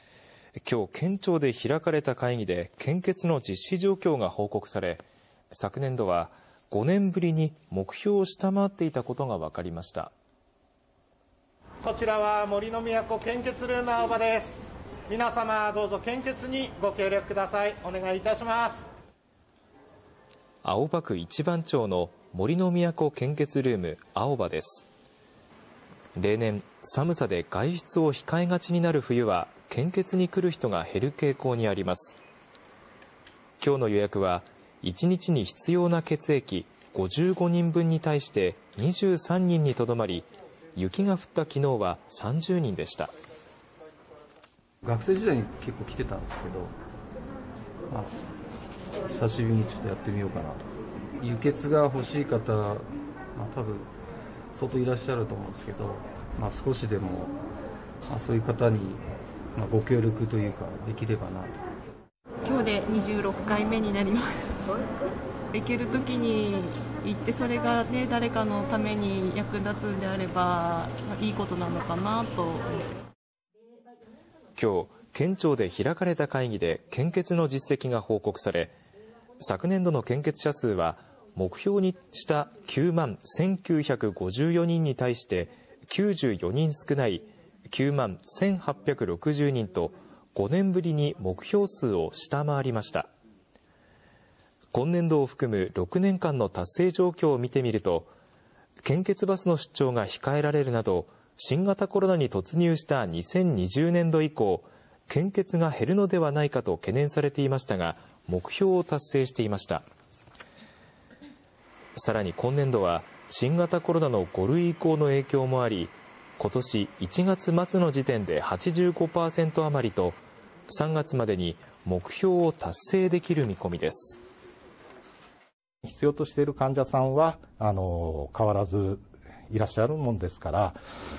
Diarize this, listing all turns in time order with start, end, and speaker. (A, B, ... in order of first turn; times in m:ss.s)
0:00.6-0:10.1 A
0:11.8-0:18.8 B
0:20.6-0:24.8 A
0:26.2-0:32.2 A
0:33.6-0:43.1 A
0:44.8-0:46.7 C
0:47.9-0:48.1 C
0:49.0-0:50.6 C
0:51.2-0:53.9 C
0:54.5-0:57.4 C
0:58.1-0:59.0 C
0:59.5-1:01.6 C
1:02.4-1:04.8 D
1:05.5-1:12.8 D
1:14.6-1:18.7 A
1:19.4-1:33.1 A
1:34.7-1:38.1 A
1:38.8-1:49.8 A
1:52.0-2:04.2 A
2:05.8-2:10.8 E